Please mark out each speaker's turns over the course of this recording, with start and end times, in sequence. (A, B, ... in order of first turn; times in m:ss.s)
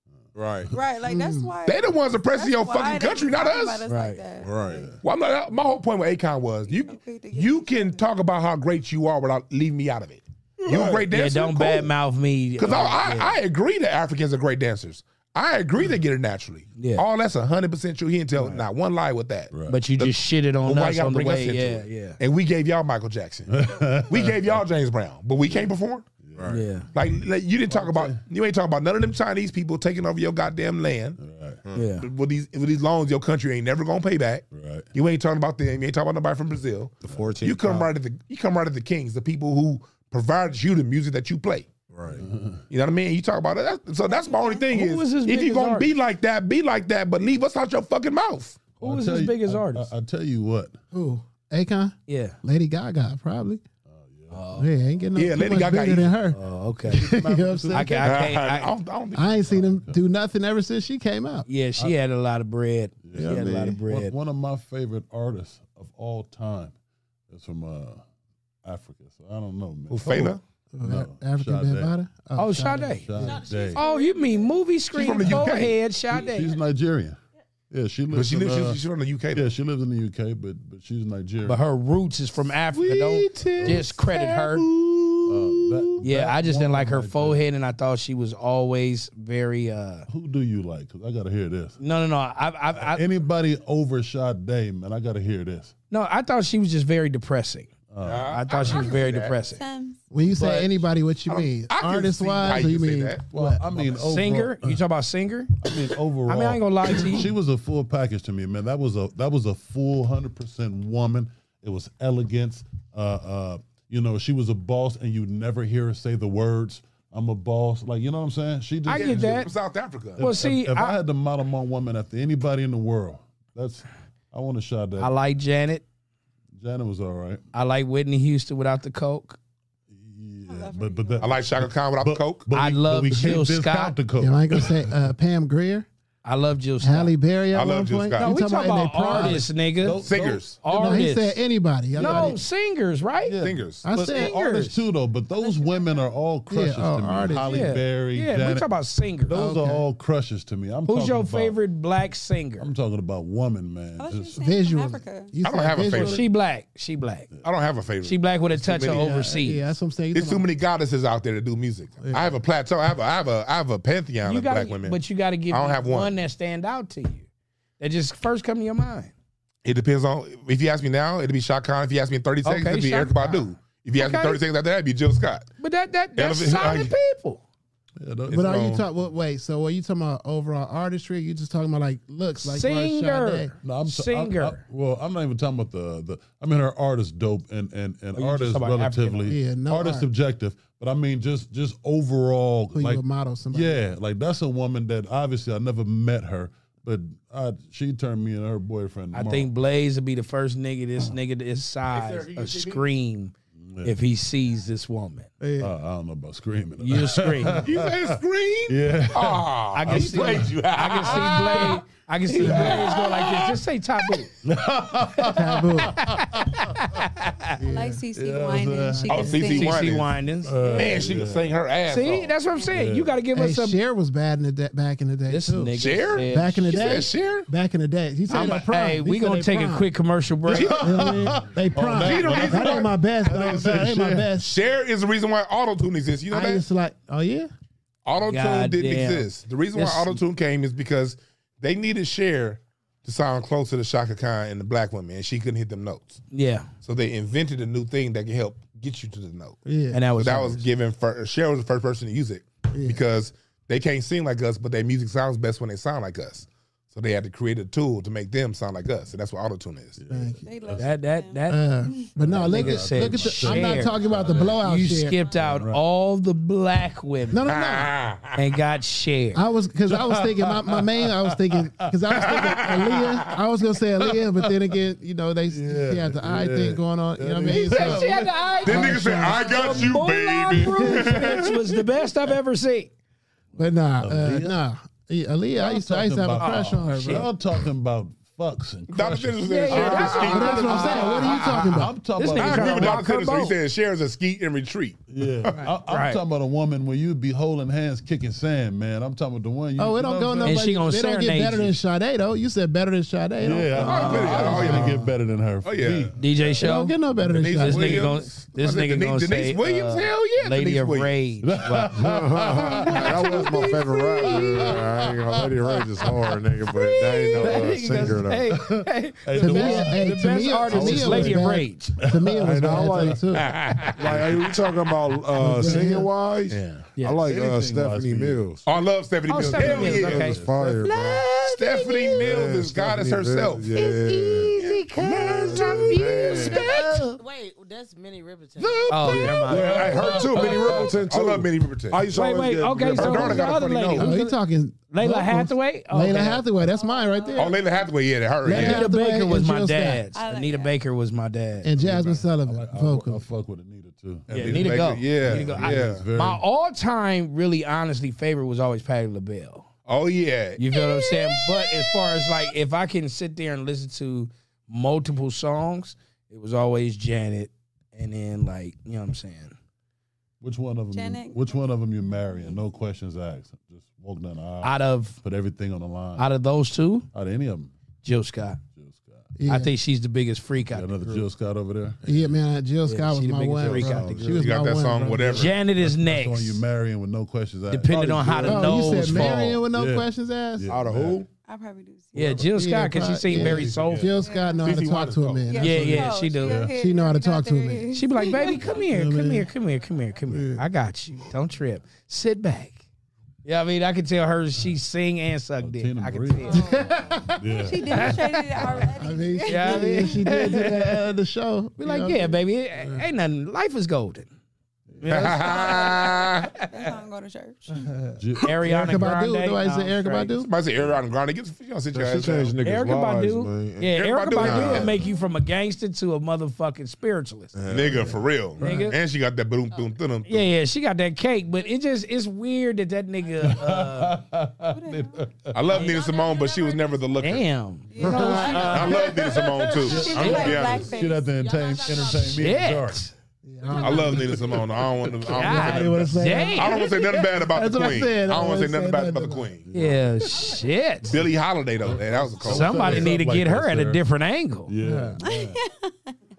0:00.3-0:00.7 A
0:00.7-0:04.6 B
0:01.0-0:01.5 C
0:01.6-0:03.8 D
0:03.9-0:04.2 E
0:04.4-0:04.9 A
0:04.7-0:05.0 F
0:05.0-0:11.9 D
0:06.7-0:08.0 B
0:11.1-0:13.4 E
0:12.6-0:26.0 D
0:16.8-0:17.0 E
0:18.3-0:18.6 E
0:19.5-0:19.8 F
0:19.7-0:22.2 E
0:23.5-0:24.6 F
0:26.2-0:26.6 F
0:26.4-0:26.6 A
0:26.5-0:26.9 E
0:26.9-0:31.2 D
0:27.7-0:28.2 F
0:31.2-0:31.6 F
0:31.7-0:32.1 E
0:32.0-0:41.7 D
0:34.5-0:34.9 F
0:37.0-0:37.9 A
0:41.9-0:42.2 A
0:42.2-0:42.6 F
0:42.7-0:48.6 D
0:44.0-0:44.7 B
0:44.7-0:45.9 E
0:48.8-0:50.8 F
0:48.8-0:49.9 E
0:50.9-0:53.6 C
0:52.1-0:52.4 E
0:53.9-0:54.6 F
0:54.3-0:54.7 E
0:54.6-0:56.4 C
0:55.1-0:56.1 D
0:56.3-0:57.2 E
0:56.9-0:58.0 C
0:56.9-0:58.2 F
0:57.7-0:58.7 E
0:58.0-0:59.4 D
0:59.2-1:01.5 C
0:59.5-1:00.0 F
1:01.5-1:04.1 E
1:03.0-1:06.7 F
1:03.2-1:03.4 C
1:07.3-1:08.0 F
1:08.6-1:11.9 F
1:09.9-1:10.4 D
1:10.7-1:13.4 C
1:12.4-1:13.1 E
1:13.0-1:13.8 F
1:13.2-1:14.7 G
1:13.7-1:16.5 E
1:14.9-1:15.7 D
1:15.2-1:15.6 F
1:16.1-1:17.2 F
1:16.1-1:16.6 G
1:17.7-1:18.8 F
1:18.1-1:19.5 D
1:19.3-1:21.6 F
1:21.4-1:24.6 E
1:22.9-1:24.1 F
1:23.3-1:25.7 D
1:25.2-1:27.4 F
1:26.0-1:30.1 E
1:30.1-1:31.8 F
1:31.8-1:33.0 E
1:32.8-1:35.7 F
1:35.9-1:37.7 E
1:37.9-1:38.9 F
1:38.0-1:39.4 D
1:38.3-1:39.6 E
1:39.4-1:40.0 B
1:40.1-1:43.6 C
1:40.3-1:40.8 F
1:41.3-1:43.2 D
1:43.3-1:44.8 F
1:43.8-1:45.6 E
1:45.6-1:59.5 F
1:46.3-1:47.3 E
1:58.8-1:59.5 E
1:58.9-2:00.4 D
2:00.2-2:05.1 F
2:00.2-2:01.0 E
2:05.0-2:05.8 E
2:06.6-2:07.4 F
2:07.5-2:09.4 E
2:09.9-2:14.9 F
2:10.4-2:11.4 B
2:11.2-2:12.5 D
2:12.5-2:13.9 E
2:14.2-2:15.9 C
2:16.2-2:17.1 E
2:16.8-2:19.4 C
2:17.5-2:18.3 D
2:18.2-2:20.0 E
2:19.1-2:21.0 F
2:20.0-2:20.6 D
2:20.6-2:21.4 E
2:20.7-2:22.4 C
2:21.9-2:22.4 F
2:22.0-2:23.4 E
2:23.2-2:28.7 F
2:23.4-2:23.8 D
2:23.8-2:24.7 C
2:24.0-2:24.8 E
2:25.3-2:26.1 B
2:26.5-2:27.7 C
2:27.4-2:29.4 E
2:29.2-2:31.6 F
2:29.3-2:29.8 C
2:30.9-2:32.7 E
2:32.6-2:34.4 F
2:34.0-2:35.3 B
2:34.4-2:36.2 C
2:35.4-2:36.2 D
2:35.9-2:37.3 E
2:37.4-2:39.1 D
2:38.0-2:39.7 E
2:38.9-2:40.4 C
2:40.1-2:45.0 D
2:42.0-2:42.4 C
2:44.2-2:47.2 E
2:45.5-2:46.1 D
2:47.8-2:49.1 E
2:49.6-2:55.5 D
2:52.4-2:53.4 E
2:54.0-2:54.4 E
2:55.6-2:57.4 E
2:56.2-2:56.9 D
2:58.0-2:58.7 F
2:58.3-2:58.8 D
2:58.3-3:03.5 C
3:02.4-3:04.6 E
3:03.6-3:19.5 F
3:08.1-3:09.3 E
3:09.3-3:10.1 C
3:12.7-3:13.8 C
3:19.1-3:25.3 E
3:21.9-3:22.8 D
3:23.6-3:23.9 F
3:25.4-3:25.7 C
3:25.6-3:31.4 F
3:26.8-3:27.6 E
3:27.6-3:34.2 D
3:29.7-3:34.3 E
3:32.5-3:32.7 F
3:34.4-3:36.9 F
3:35.2-3:36.0 C
3:36.0-3:37.6 E
3:37.6-3:38.0 C
3:37.6-3:40.0 B
3:38.1-3:39.4 F
3:39.1-3:40.1 D
3:39.4-3:40.8 E
3:40.4-3:41.5 F
3:40.6-3:42.3 D
3:41.9-3:43.8 E
3:42.7-3:43.2 F
3:43.3-3:49.9 C
3:45.3-3:46.9 E
3:45.8-3:47.5 D
3:48.3-3:50.8 E
3:50.5-3:54.3 F
3:50.5-3:50.8 D
3:50.8-3:54.5 C
3:52.0-3:52.9 D
3:54.4-3:56.6 D
3:56.3-3:57.5 C
3:58.0-4:06.2 D
3:58.3-4:00.2 E
4:06.3-4:06.7 E
4:06.8-4:09.6 D
4:09.6-4:10.0 C
4:09.9-4:10.6 E
4:10.2-4:20.0 D
4:12.7-4:13.0 C
4:20.0-4:21.0 F
4:20.1-4:20.4 C
4:20.4-4:22.1 B
4:20.8-4:21.6 E
4:21.5-4:25.2 C
4:22.2-4:24.7 F
4:22.4-4:27.4 E
4:24.0-4:24.4 B
4:25.4-4:25.8 F
4:27.3-4:27.9 C
4:27.5-4:28.4 D
4:28.4-4:29.4 E
4:29.3-4:38.1 C
4:29.9-4:32.7 F
4:32.1-4:33.3 D
4:34.0-4:34.5 F
4:35.5-4:40.0 F
4:37.5-4:42.9 E
4:38.6-4:41.6 D
4:38.6-4:39.6 C
4:40.7-4:41.3 C
4:43.6-4:47.3 C
4:44.0-4:44.6 F
4:45.6-4:53.0 F
4:46.4-4:47.3 E
4:48.9-4:51.7 D
4:49.4-4:51.2 E
4:50.2-4:51.9 C
4:52.2-4:53.6 E
4:52.3-4:55.6 D
4:55.1-5:00.6 F
4:55.9-4:56.2 E
4:59.8-5:05.0 C
5:00.4-5:01.7 E
5:03.4-5:07.6 F
5:03.8-5:05.0 D
5:04.1-5:04.8 E
5:05.6-5:06.1 D
5:06.2-5:07.0 E
5:06.6-5:08.1 C
5:07.3-5:11.1 D
5:07.6-5:12.0 E
5:11.4-5:23.2 F
5:11.9-5:18.5 A
5:13.2-5:14.8 E
5:17.3-5:22.0 E
5:19.4-5:23.5 C
5:22.4-5:23.2 A
5:23.3-5:24.1 D
5:23.8-5:24.6 F
5:24.0-5:28.6 A
5:25.4-5:26.1 C
5:25.5-5:25.8 F
5:26.5-5:26.8 D
5:27.0-5:27.2 E
5:27.2-5:28.4 F
5:28.6-5:30.3 D
5:29.3-5:32.2 E
5:29.3-5:30.8 F
5:29.6-5:31.3 A
5:31.4-5:33.8 D
5:32.0-5:36.7 A
5:33.7-5:37.2 E
5:34.6-5:36.6 D
5:36.3-5:39.5 G
5:38.6-5:43.6 A
5:38.8-5:41.0 F
5:38.9-5:40.0 E
5:39.5-5:42.1 D
5:42.1-5:44.4 E
5:43.0-5:44.1 D
5:43.9-5:47.6 C
5:44.9-5:46.4 E
5:47.0-5:47.3 G
5:47.2-5:47.5 B
5:47.4-5:48.9 D
5:48.4-5:50.0 C
5:48.5-5:51.7 E
5:50.1-5:50.8 B
5:51.6-5:53.2 C
5:51.8-5:56.4 F
5:54.3-5:59.7 E
5:54.3-5:56.0 D
5:59.9-6:00.6 D
6:00.6-6:09.5 E
6:00.7-6:01.9 B
6:10.4-6:16.3 F
6:10.9-6:11.6 B
6:14.6-6:15.2 E
6:16.2-6:17.1 E
6:17.1-6:17.7 F
6:18.0-6:18.6 E
6:18.7-6:19.3 F
6:19.4-6:19.7 C
6:19.4-6:21.2 E
6:20.6-6:22.3 F
6:22.0-6:25.5 C
6:22.8-6:24.4 E
6:23.6-6:24.4 F
6:24.4-6:25.5 D
6:25.3-6:26.6 E
6:25.8-6:31.2 F
6:27.7-6:29.6 E
6:28.4-6:30.7 C
6:30.7-6:31.2 A
6:31.4-6:32.4 B
6:32.1-6:34.1 E
6:32.2-6:32.5 F
6:32.5-6:36.1 C
6:33.3-6:34.2 F
6:34.1-6:34.8 B
6:34.6-6:35.5 D
6:35.5-6:38.7 B
6:35.5-6:36.7 E
6:35.7-6:36.8 F
6:36.7-6:39.5 C
6:37.9-6:42.8 E
6:40.3-6:40.6 C
6:43.4-6:46.7 E
6:45.6-6:46.5 F
6:46.4-6:47.3 G
6:46.5-6:47.6 C
6:47.4-6:48.2 F
6:47.6-6:50.2 B
6:47.9-6:48.9 E
6:49.0-6:52.4 C
6:49.4-6:51.1 E
6:51.8-6:54.3 E
6:54.9-6:55.3 F
6:55.0-6:56.9 E
6:55.1-6:56.5 D
6:56.7-6:57.8 B
6:57.7-7:00.5 C
6:58.2-6:59.0 F
6:58.4-7:00.4 E
7:00.4-7:02.6 D
7:01.9-7:05.0 A
7:02.6-7:07.6 E
7:03.9-7:05.0 D
7:07.5-7:08.2 A
7:07.7-7:10.5 D
7:08.6-7:08.9 F
7:08.6-7:09.0 E
7:10.2-7:14.2 E
7:13.2-7:13.5 G
7:13.4-7:15.7 F
7:14.7-7:15.3 B
7:15.5-7:17.4 D
7:15.7-7:17.2 G
7:15.7-7:16.0 E
7:17.2-7:19.2 E
7:17.9-7:19.0 B
7:18.0-7:18.4 C
7:18.0-7:23.0 F
7:18.5-7:20.8 D
7:19.8-7:22.2 B
7:19.8-7:22.6 G
7:22.2-7:23.1 E
7:23.4-7:24.4 C
7:23.7-7:26.0 D
7:23.8-7:26.2 F
7:25.3-7:26.9 E
7:25.4-7:29.5 C
7:26.5-7:29.6 D
7:29.7-7:30.3 F
7:29.7-7:31.2 E
7:31.0-7:33.1 D
7:31.8-7:34.0 F
7:32.4-7:34.7 E
7:34.7-7:35.6 F
7:34.8-7:35.2 C
7:35.2-7:36.1 B